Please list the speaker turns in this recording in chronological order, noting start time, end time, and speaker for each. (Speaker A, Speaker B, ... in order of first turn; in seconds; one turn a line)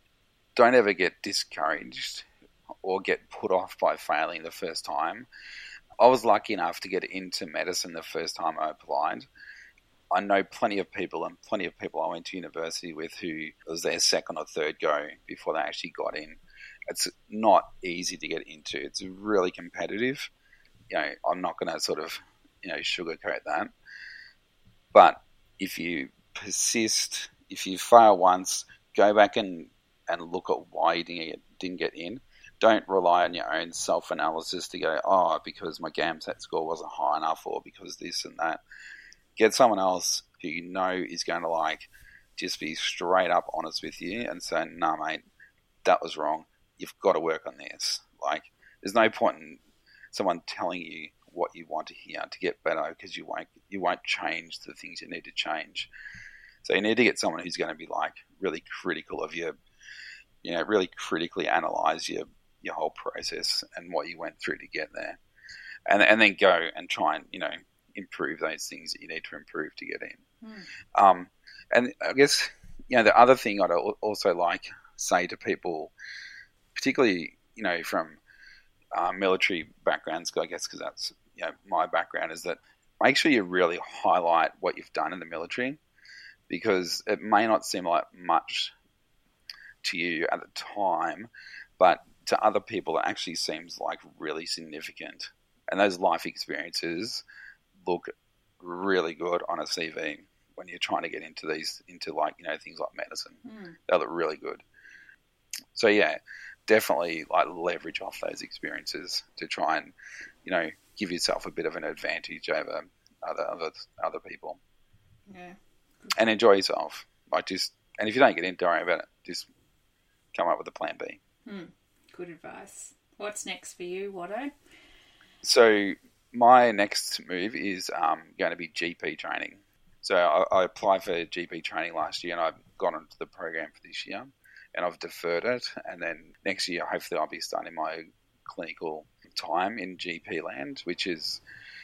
Speaker A: 0.6-2.3
Speaker A: 2.8-5.3
Speaker A: 6.0-9.3
Speaker A: 10.1-20.3
Speaker A: 20.9-23.7
Speaker A: 24.9-38.6
Speaker A: 39.4-45.2
Speaker A: 45.8-49.6
Speaker A: 50.1-55.9
Speaker A: 56.6-59.6
Speaker A: 60.4-65.2
Speaker A: 65.9-70.2
Speaker B: 70.4-70.7
Speaker A: 71.0-75.9
Speaker A: 76.8-78.2
Speaker A: 78.9-85.8
Speaker A: 86.5-88.7
Speaker A: 89.8-97.2
Speaker A: 97.8-104.6
Speaker B: 103.4-103.8
Speaker A: 105.7-114.6
Speaker B: 115.3-116.2
Speaker A: 116.1-119.5
Speaker A: 120.3-121.2
Speaker B: 121.5-124.5
Speaker A: 125.4-141.4